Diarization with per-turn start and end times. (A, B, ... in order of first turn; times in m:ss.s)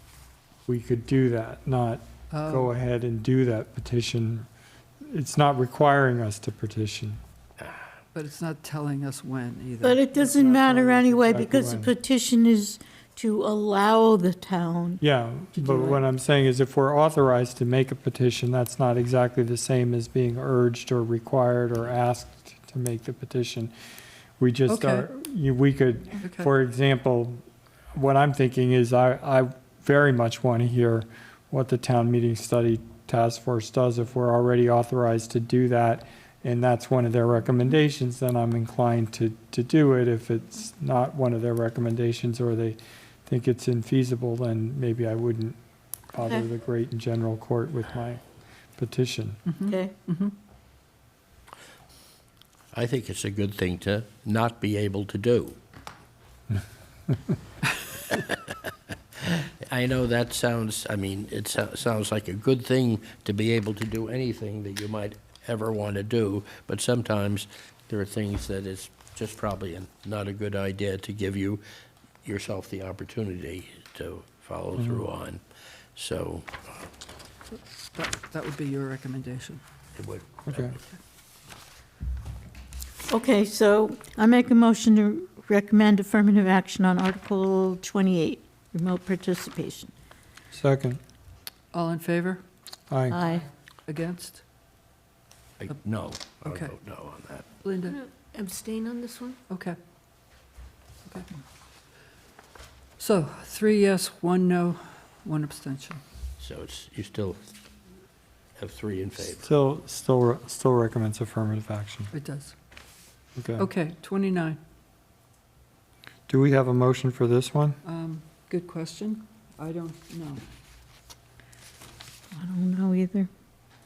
0:00.7-0:04.5 A
0:02.3-0:02.7 B
0:05.1-0:07.2 A
0:08.1-0:11.3 B
0:09.8-0:15.0 C
0:11.3-0:11.9 A
0:15.0-0:23.7 A
0:15.5-0:16.0 B
0:24.4-0:27.4 A
0:24.7-0:25.1 B
0:26.2-0:26.5 B
0:27.9-0:45.6 A
0:46.1-0:48.2 A
0:48.8-0:49.4 A
0:49.5-0:50.3 B
0:49.7-0:49.9 C
0:52.7-0:55.6 D
0:59.2-1:11.6 D
1:12.2-1:15.4 D
1:14.8-1:15.0 A
1:16.0-1:16.7 D
1:17.9-1:19.6 B
1:20.0-1:20.8 D
1:20.5-1:20.8 A
1:23.1-1:29.9 C
1:30.5-1:31.0 A
1:31.7-1:32.4 B
1:32.9-1:33.2 A
1:33.1-1:33.5 C
1:33.9-1:34.4 B
1:35.6-1:37.4 D
1:36.4-1:36.7 B
1:37.6-1:38.0 B
1:39.5-1:39.8 B
1:41.0-1:41.3 B
1:43.0-1:46.0 B
1:46.4-1:47.4 D
1:48.6-1:49.5 D
1:49.3-1:52.1 A
1:52.1-1:52.5 B
1:53.4-1:53.7 A
1:53.6-1:54.6 B
1:56.3-1:57.8 A
1:57.8-2:00.4 B
2:02.4-2:03.3 C